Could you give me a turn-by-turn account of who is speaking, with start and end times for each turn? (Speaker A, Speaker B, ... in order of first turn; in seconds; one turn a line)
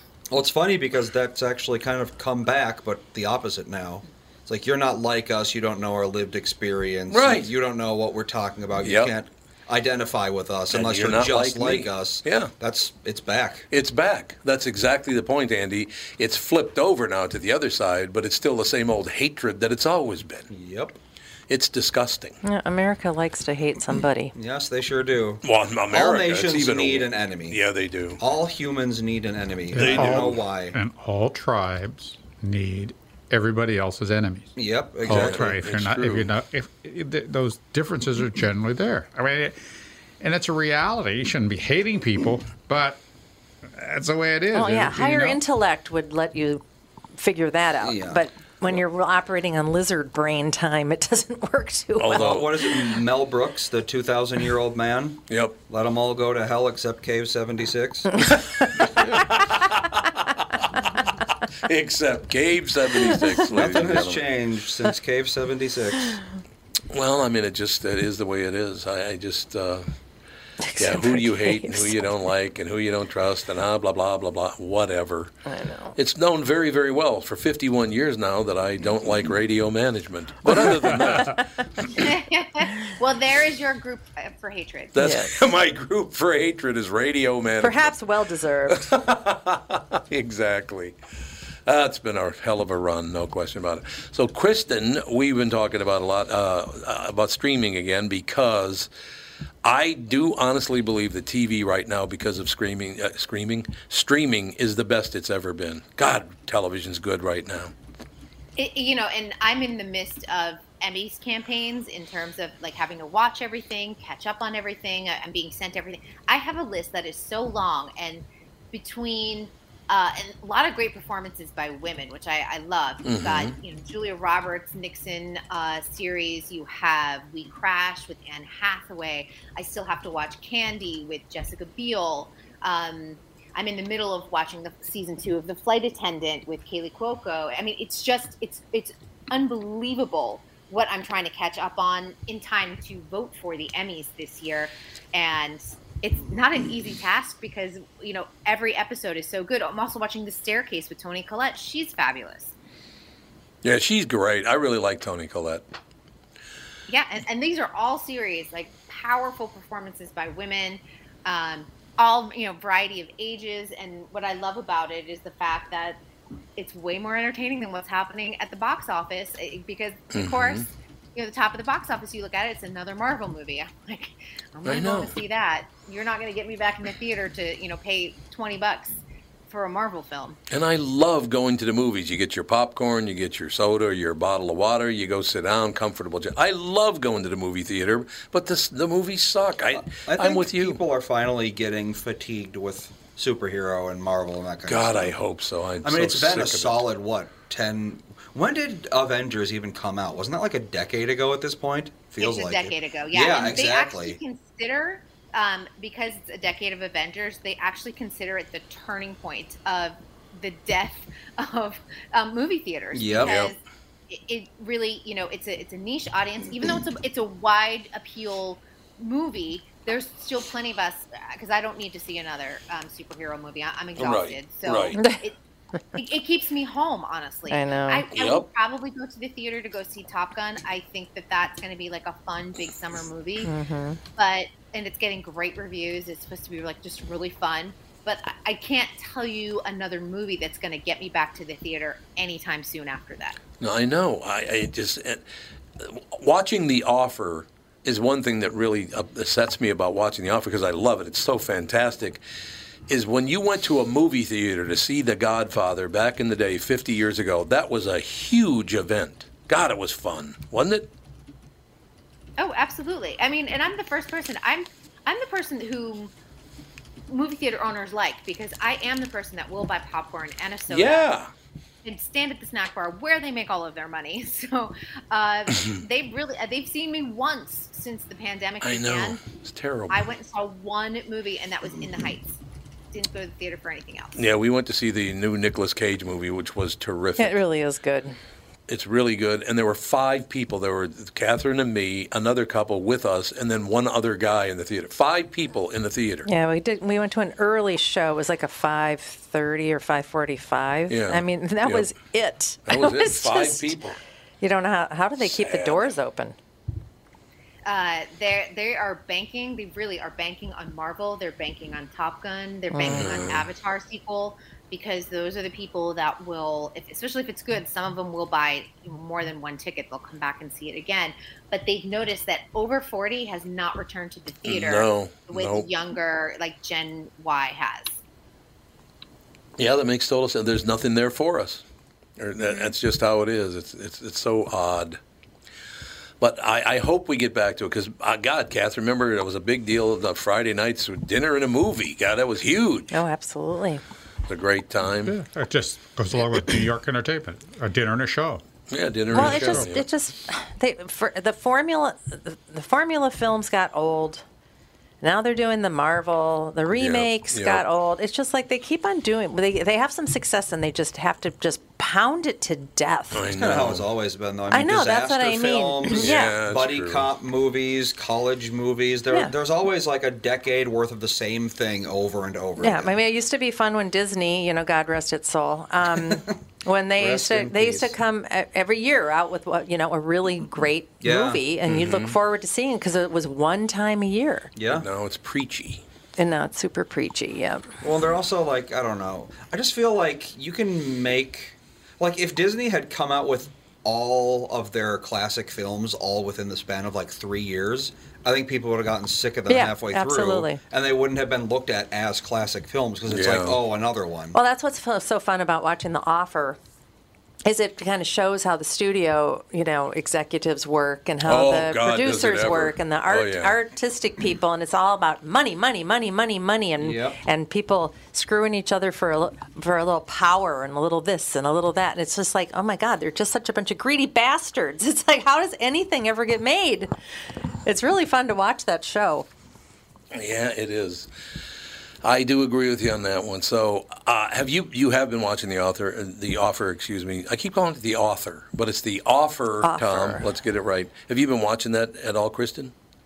Speaker A: 0.3-13.7
Speaker B: 7.1-7.5
Speaker B: 8.8-9.1
Speaker B: 10.7-12.5
Speaker B: 13.7-20.5
Speaker A: 20.5-21.0
Speaker B: 21.5-22.4
Speaker C: 22.4-24.3
Speaker A: 24.3-27.6
Speaker B: 25.4-28.2
Speaker A: 28.2-30.8
Speaker D: 29.7-34.5
Speaker B: 29.7-30.4
Speaker A: 34.5-35.4
Speaker B: 35.1-36.3
Speaker D: 35.1-39.6
Speaker D: 40.2-43.0
Speaker D: 43.8-45.4
Speaker C: 44.5-46.6
Speaker C: 47.1-52.4
Speaker A: 47.8-48.2
Speaker B: 52.0-52.5
Speaker A: 52.1-58.1
Speaker B: 55.3-55.6
Speaker B: 58.5-60.7
Speaker B: 61.6-64.2
Speaker A: 63.5-66.2
Speaker B: 66.9-69.9
Speaker C: 70.7-71.9
Speaker B: 70.8-75.3
Speaker C: 75.5-76.0
Speaker B: 76.0-81.4
Speaker E: 81.9-84.9
Speaker B: 84.9-88.0
Speaker C: 85.0-85.4
Speaker C: 87.6-88.9
Speaker B: 88.7-91.0
Speaker B: 91.7-98.9
Speaker B: 99.6-107.7
Speaker E: 108.6-152.5
Speaker B: 123.0-123.5
Speaker B: 153.6-155.7
Speaker E: 156.9-166.0
Speaker E: 166.6-180.4
Speaker B: 170.1-170.7
Speaker B: 174.6-175.1
Speaker B: 180.5-190.8
Speaker A: 189.7-195.1
Speaker B: 194.7-196.8
Speaker A: 195.8-204.2
Speaker E: 202.2-213.6
Speaker A: 212.9-213.3
Speaker B: 213.2-213.5
Speaker E: 214.1-225.4
Speaker B: 224.0-225.0
Speaker C: 224.9-225.2
Speaker E: 225.9-233.5
Speaker C: 227.5-228.1
Speaker B: 228.1-228.5
Speaker C: 233.4-234.0
Speaker E: 234.2-243.4
Speaker B: 243.6-245.2
Speaker B: 245.8-252.2
Speaker B: 252.9-260.9
Speaker E: 262.4-266.1
Speaker E: 267.1-271.1
Speaker B: 270.7-271.3
Speaker E: 271.8-279.2
Speaker B: 275.6-275.8
Speaker B: 278.6-280.0
Speaker E: 279.9-282.4
Speaker E: 282.9-284.1
Speaker B: 284.1-287.4
Speaker C: 287.2-288.1
Speaker B: 288.7-296.3
Speaker C: 296.2-303.7
Speaker B: 300.9-301.9
Speaker B: 302.6-304.0
Speaker C: 304.4-306.4
Speaker B: 305.2-305.9
Speaker E: 307.6-327.9
Speaker C: 312.7-313.2
Speaker B: 312.9-313.5
Speaker B: 324.4-325.7
Speaker B: 329.6-331.6
Speaker B: 332.2-335.0
Speaker B: 336.2-343.0
Speaker C: 342.9-343.8
Speaker B: 344.3-345.2
Speaker D: 345.0-348.4
Speaker B: 348.7-349.9
Speaker D: 349.1-349.6
Speaker C: 349.1-354.2
Speaker C: 355.0-363.2
Speaker B: 356.7-357.6
Speaker B: 363.1-363.9
Speaker A: 363.3-372.9
Speaker C: 364.5-366.4
Speaker B: 365.9-367.1
Speaker C: 372.6-384.5
Speaker A: 375.9-376.3
Speaker A: 376.9-377.9
Speaker A: 381.0-381.4
Speaker B: 381.6-382.2
Speaker A: 384.5-384.9
Speaker B: 384.7-385.8
Speaker C: 386.2-387.7
Speaker A: 387.8-404.4
Speaker C: 399.5-400.6
Speaker B: 403.1-403.6
Speaker C: 404.3-406.6
Speaker C: 407.4-426.9
Speaker B: 411.2-413.6
Speaker A: 416.8-417.2
Speaker C: 427.6-429.3
Speaker B: 430.1-431.1
Speaker B: 432.0-442.7
Speaker C: 439.6-440.2